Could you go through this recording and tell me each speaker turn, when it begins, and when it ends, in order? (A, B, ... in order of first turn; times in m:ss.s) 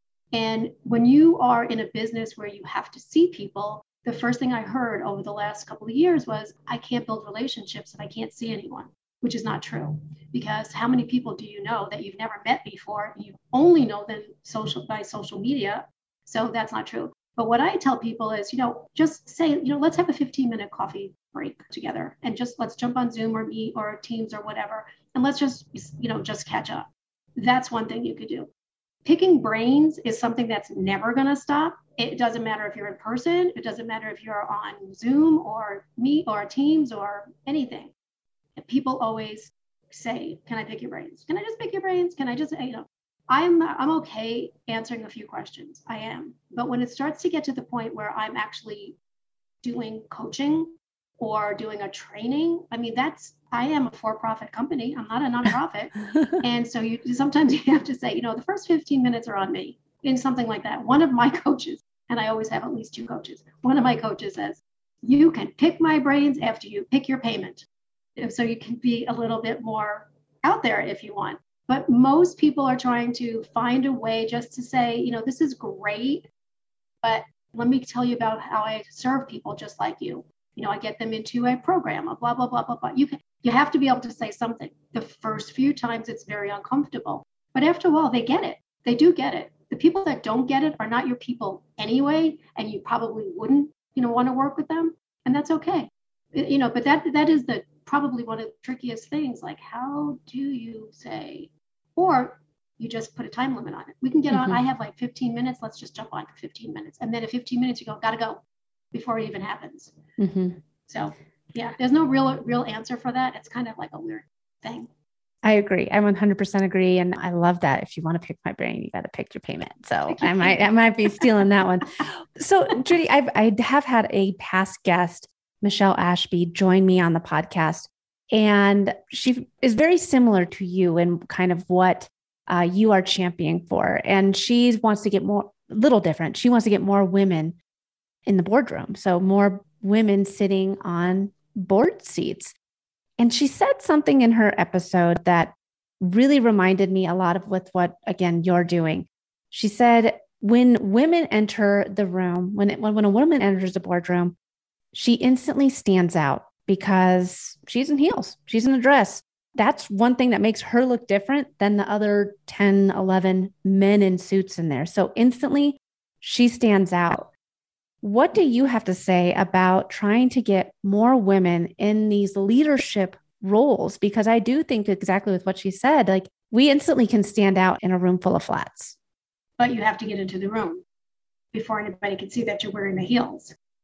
0:00.3-0:28.5 A
0:29.0-0:37.9 A
0:38.6-0:49.0 A
0:49.6-1:07.6 A
1:08.2-1:16.3 A
1:17.0-1:48.4 A
1:44.3-1:44.6 B
1:48.9-1:49.9 A
1:50.2-1:50.6 B
1:50.9-1:54.9 A
1:55.4-2:17.6 B
2:00.1-2:00.6 A
2:18.3-2:22.5 B
2:23.2-2:34.3 B
2:34.9-2:47.3 B
2:48.0-2:59.0 B
2:59.6-3:00.8 A
3:01.5-3:03.6 A